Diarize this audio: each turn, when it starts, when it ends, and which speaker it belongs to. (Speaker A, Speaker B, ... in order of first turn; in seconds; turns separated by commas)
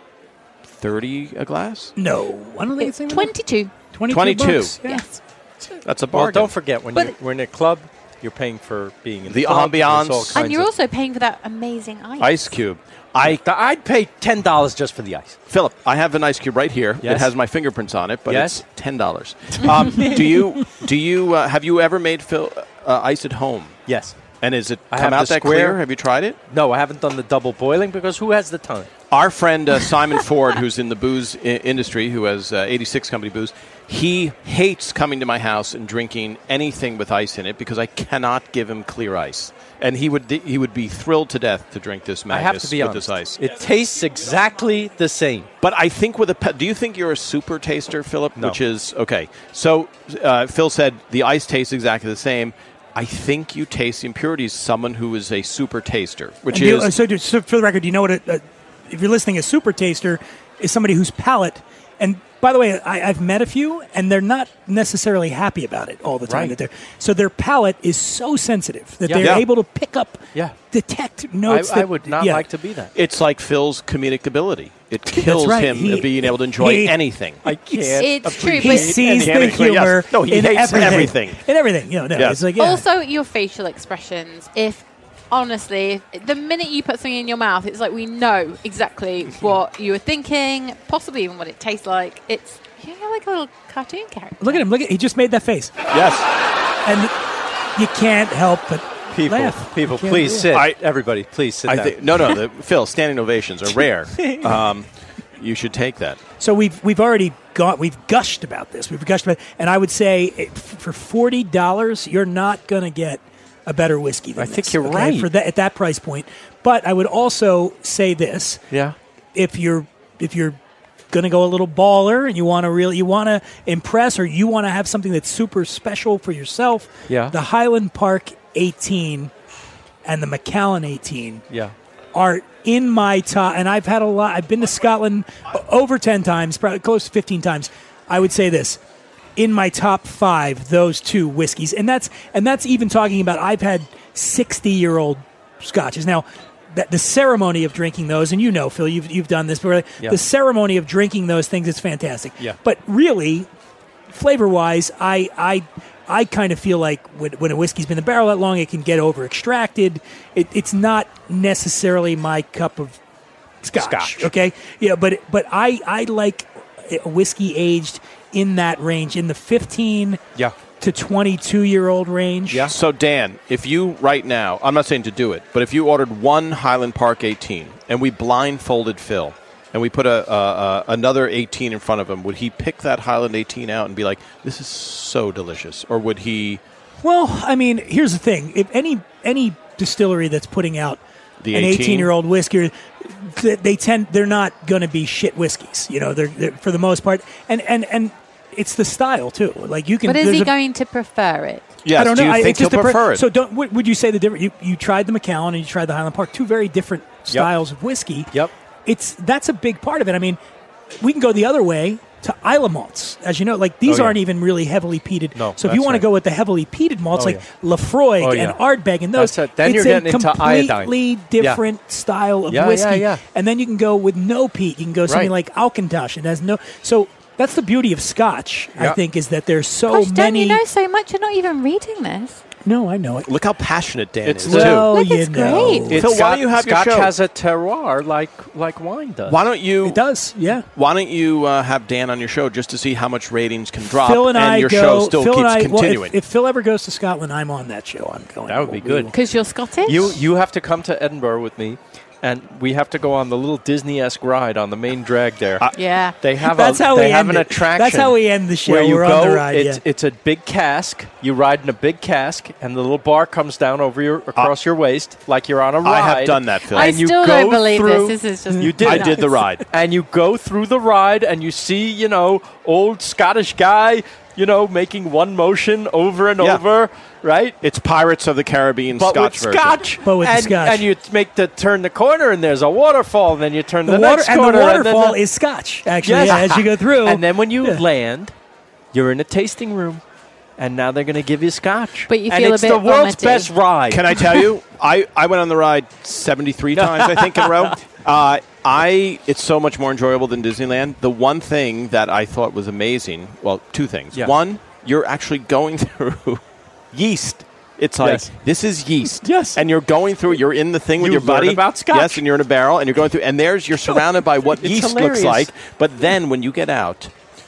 Speaker A: 0.7-1.9, Speaker B: 2.0-3.3, Speaker C: 2.8-3.7, Speaker B: 3.9-5.1, Speaker A: 4.1-4.8, Speaker C: 4.8-5.1, Speaker A: 5.8-6.5, Speaker D: 6.1-10.7, Speaker A: 9.3-10.5, Speaker C: 10.3-12.5, Speaker A: 12.2-13.4, Speaker D: 13.2-15.4, Speaker A: 15.5-23.8, Speaker D: 17.0-17.3, Speaker D: 18.3-18.6, Speaker D: 23.9-24.2, Speaker A: 24.4-26.4, Speaker D: 24.9-25.8, Speaker D: 26.5-28.9, Speaker A: 29.1-43.4, Speaker D: 42.3-45.5, Speaker A: 45.6-56.9, Speaker B: 56.5-72.5, Speaker D: 66.3-66.5, Speaker D: 69.0-69.4, Speaker A: 69.2-69.5, Speaker D: 71.5-72.9, Speaker A: 73.0-77.4, Speaker B: 75.1-82.8, Speaker D: 77.5-79.6, Speaker C: 78.0-79.2, Speaker A: 79.1-81.4, Speaker D: 80.7-81.1, Speaker A: 82.1-82.4, Speaker C: 82.6-94.7, Speaker B: 94.4-95.8, Speaker A: 95.9-96.3, Speaker B: 96.8-97.1, Speaker B: 97.8-100.5, Speaker D: 99.1-102.0, Speaker A: 100.5-100.8, Speaker A: 101.7-106.2, Speaker B: 106.4-118.6, Speaker D: 114.4-115.3, Speaker B: 119.3-120.6, Speaker B: 121.1-129.3, Speaker D: 127.1-127.3, Speaker B: 130.1-131.4, Speaker B: 132.1-138.8, Speaker B: 139.4-153.5, Speaker B: 154.1-163.0, Speaker B: 163.6-170.2, Speaker D: 163.8-164.3, Speaker B: 170.8-172.7, Speaker D: 172.5-172.8, Speaker A: 172.6-186.6, Speaker B: 187.0-200.5, Speaker A: 191.4-192.1, Speaker C: 200.1-201.7, Speaker A: 201.8-203.3, Speaker B: 201.9-208.3, Speaker B: 208.9-210.4, Speaker B: 211.0-230.6, Speaker D: 213.9-214.2, Speaker D: 215.3-216.1, Speaker D: 217.1-217.4, Speaker D: 218.2-218.6, Speaker D: 219.1-221.6, Speaker D: 222.5-223.2, Speaker D: 225.1-225.3, Speaker C: 229.9-232.4, Speaker B: 232.7-233.3, Speaker A: 233.2-234.9, Speaker D: 234.2-234.9, Speaker B: 234.5-236.1, Speaker C: 234.9-235.9, Speaker D: 235.5-239.4, Speaker A: 235.9-237.1, Speaker A: 239.3-240.1, Speaker B: 239.8-240.7, Speaker A: 240.7-246.2, Speaker B: 244.0-249.2, Speaker D: 248.5-249.1, Speaker C: 249.1-250.2, Speaker D: 249.9-255.7, Speaker C: 255.7-256.1, Speaker D: 256.2-277.6, Speaker B: 256.4-259.8, Speaker A: 265.8-267.0, Speaker C: 266.7-269.2, Speaker B: 268.6-269.0, Speaker A: 268.8-269.6, Speaker A: 277.6-279.9, Speaker D: 278.9-285.2, Speaker B: 280.0-280.9, Speaker B: 283.9-287.8, Speaker D: 286.0-288.3, Speaker D: 288.9-290.0, Speaker D: 290.6-294.4, Speaker C: 292.1-293.5, Speaker A: 293.9-317.1, Speaker D: 296.8-297.8, Speaker D: 308.0-308.3, Speaker D: 309.2-309.6, Speaker D: 311.0-312.2, Speaker D: 314.6-315.5